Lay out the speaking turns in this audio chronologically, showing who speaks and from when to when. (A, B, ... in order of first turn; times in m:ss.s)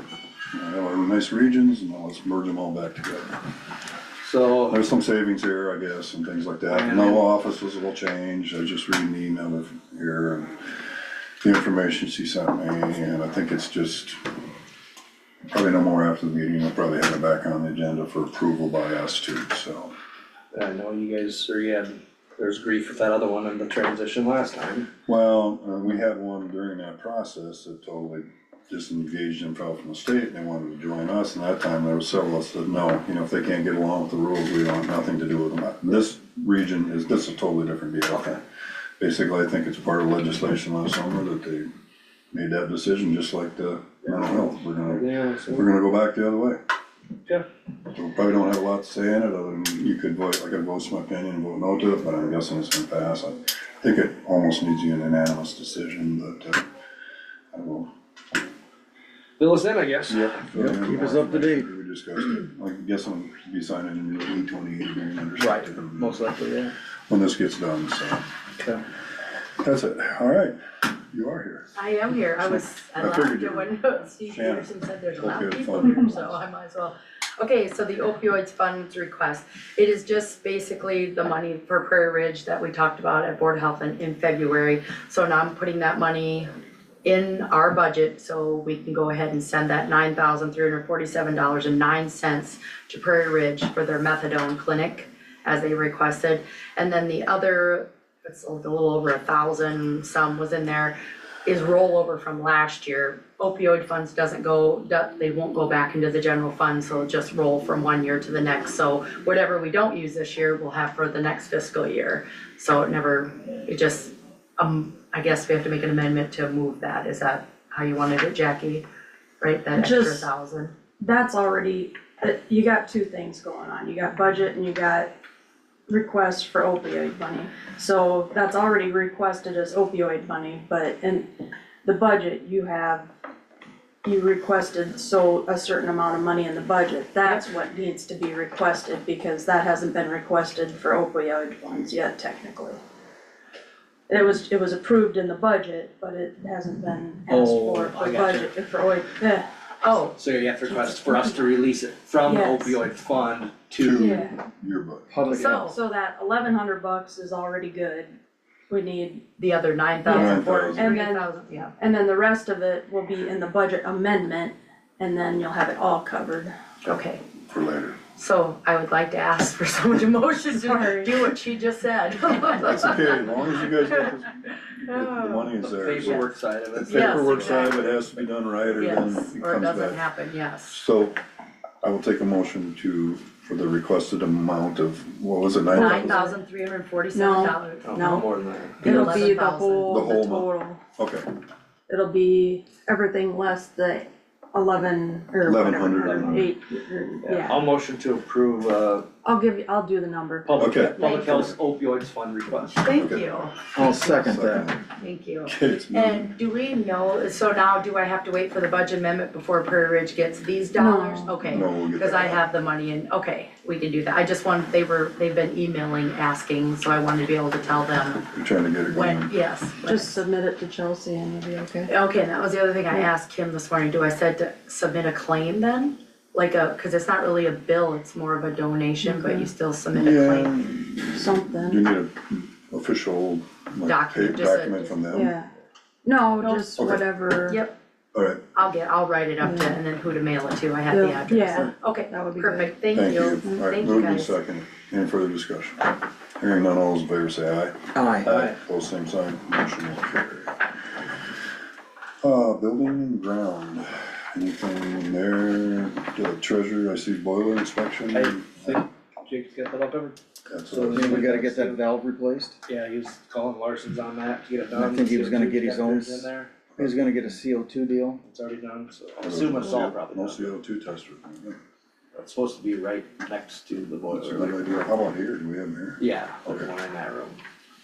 0:00.5-0:03.5 A
0:04.2-0:04.8 B
0:04.7-0:10.8 A
0:06.7-0:07.2 B
0:11.4-0:14.2 A
0:15.5-0:19.9 A
0:20.5-0:24.9 B
0:25.1-0:38.4 A
0:39.0-0:41.7 A
0:42.3-0:46.6 A
0:44.0-0:45.7 B
0:47.9-0:56.7 A
0:57.5-0:57.9 A
0:59.4-1:00.4 B
1:00.1-1:06.2 A
1:00.5-1:01.7 C
1:05.4-1:06.7 B
1:07.1-1:08.2 A
1:09.6-1:11.7 A
1:11.7-1:26.5 D
1:12.5-1:16.4 A
1:27.0-1:58.8 D
1:59.4-2:00.7 D
1:59.7-2:00.3 E
2:01.0-2:05.1 E
2:05.9-2:11.3 E
2:11.8-2:13.1 E
2:14.0-2:22.8 E
2:24.1-2:29.5 E
2:27.3-2:28.5 B
2:29.8-2:30.1 D
2:30.2-2:34.1 B
2:32.2-2:32.8 E
2:33.8-2:35.1 A
2:34.0-2:34.4 E
2:35.1-2:35.7 C
2:35.3-2:35.8 D
2:35.5-2:38.1 E
2:38.7-2:39.2 E
2:39.4-2:41.7 D
2:40.0-2:46.5 E
2:40.1-2:40.9 A
2:46.8-2:47.2 D
2:47.5-2:48.0 A
2:48.1-2:54.1 D
2:50.5-2:51.2 E
2:52.6-3:00.1 A
2:54.8-2:56.3 D
2:55.6-2:58.1 B
2:56.8-2:57.8 D
2:58.8-3:00.8 D
3:00.7-3:01.2 A
3:01.8-3:06.2 A
3:05.7-3:07.9 D
3:05.7-3:06.4 E
3:07.1-3:08.3 E
3:07.8-3:09.1 B
3:08.8-3:10.1 D
3:08.8-3:10.8 E
3:09.8-3:11.3 A
3:11.9-3:17.6 E
3:15.4-3:16.4 A
3:15.9-3:16.5 B
3:17.2-3:19.0 B
3:19.2-3:21.4 E
3:20.4-3:22.8 B
3:20.6-3:21.4 A
3:21.0-3:21.3 D
3:22.8-3:23.9 D
3:22.9-3:23.3 A
3:23.7-3:24.7 C
3:23.8-3:24.8 A
3:24.9-3:38.3 D
3:25.4-3:26.3 A
3:30.8-3:31.4 E
3:31.5-3:32.4 A
3:38.2-3:39.3 A
3:38.9-3:40.2 D
3:39.8-3:41.9 E
3:41.9-3:50.5 D
3:49.0-3:49.5 E
3:49.9-3:55.3 A
3:51.1-3:51.8 E
3:53.8-3:55.0 D
3:55.1-3:55.5 E
3:56.0-3:57.6 E
3:56.4-3:56.9 D
3:56.8-3:57.0 A
3:57.5-3:57.8 D
3:58.1-3:58.4 A
3:58.5-4:04.3 D
3:59.4-3:59.8 E
4:00.9-4:02.8 E
4:02.9-4:10.6 A
4:08.0-4:08.3 C
4:12.2-4:18.8 A
4:18.1-4:20.2 B
4:20.5-4:21.4 A
4:20.7-4:22.6 C
4:20.9-4:21.8 B
4:22.7-4:26.5 B
4:24.7-4:28.2 C
4:28.2-4:30.5 B
4:29.2-4:31.6 A
4:32.1-4:34.9 B
4:34.1-4:36.7 A
4:36.0-4:37.4 B